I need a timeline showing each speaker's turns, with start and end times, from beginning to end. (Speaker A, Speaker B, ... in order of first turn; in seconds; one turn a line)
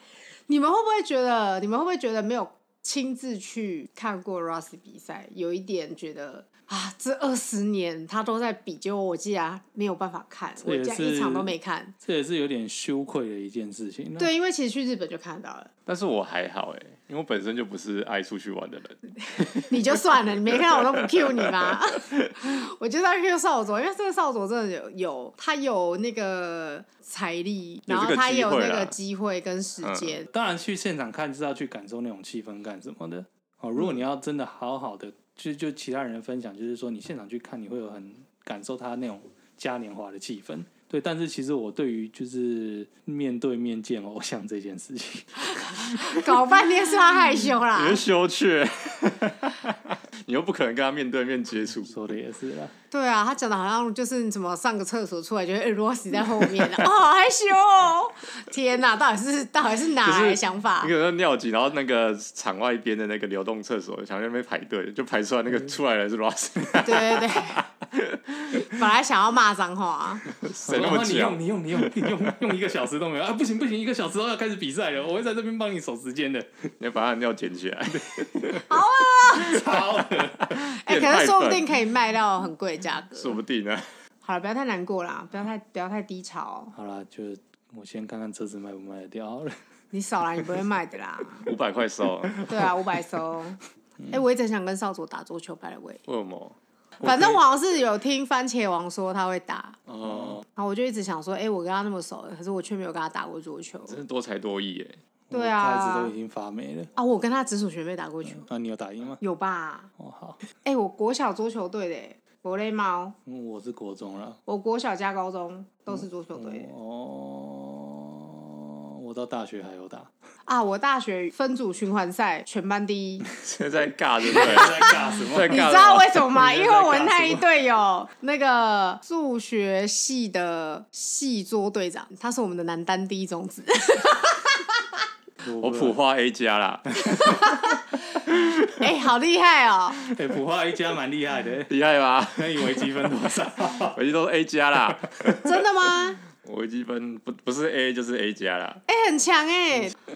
Speaker A: 0.5-11.9
Speaker B: 10.6-14.3
Speaker A: 14.2-15.7
Speaker C: 15.9-22.3
Speaker A: 19.2-30.3
Speaker C: 27.9-29.0
Speaker C: 29.8-30.2
Speaker B: 30.3-46.2
Speaker A: 45.8-48.0
Speaker C: 47.7-52.1
Speaker B: 51.9-52.7
Speaker A: 52.9-60.9
Speaker C: 60.0-68.7
Speaker A: 66.8-67.7
Speaker A: 68.5-70.3
Speaker C: 70.3-72.3
Speaker B: 70.7-76.7
Speaker C: 76.8-78.7
Speaker B: 77.9-78.2
Speaker A: 78.7-79.6
Speaker B: 79.3-80.5
Speaker C: 80.5-81.7
Speaker A: 80.6-83.4
Speaker C: 83.2-83.9
Speaker A: 84.2-86.7
Speaker B: 86.7-89.6
Speaker A: 89.9-91.5
Speaker C: 91.4-92.7
Speaker A: 92.5-96.0
Speaker C: 96.1-96.6
Speaker B: 97.0-97.4
Speaker A: 97.0-99.8
Speaker C: 99.9-100.4
Speaker A: 100.5-104.0
Speaker C: 103.8-105.0
Speaker B: 105.3-106.9
Speaker A: 105.3-106.1
Speaker A: 107.0-108.5
Speaker B: 108.2-109.2
Speaker A: 109.2-109.9
Speaker B: 110.0-110.4
Speaker A: 110.6-113.2
Speaker B: 113.3-114.4
Speaker A: 114.5-116.7
Speaker B: 115.9-120.1
Speaker A: 120.5-123.3
Speaker C: 123.3-126.2
Speaker A: 124.2-135.0
Speaker B: 124.3-127.5
Speaker B: 135.4-136.0
Speaker C: 135.6-138.9
Speaker A: 137.0-140.0
Speaker B: 140.1-141.7
Speaker C: 141.7-142.9
Speaker B: 142.3-144.0
Speaker C: 143.9-145.6
Speaker A: 145.4-146.2
Speaker C: 146.3-148.8
Speaker A: 148.9-150.0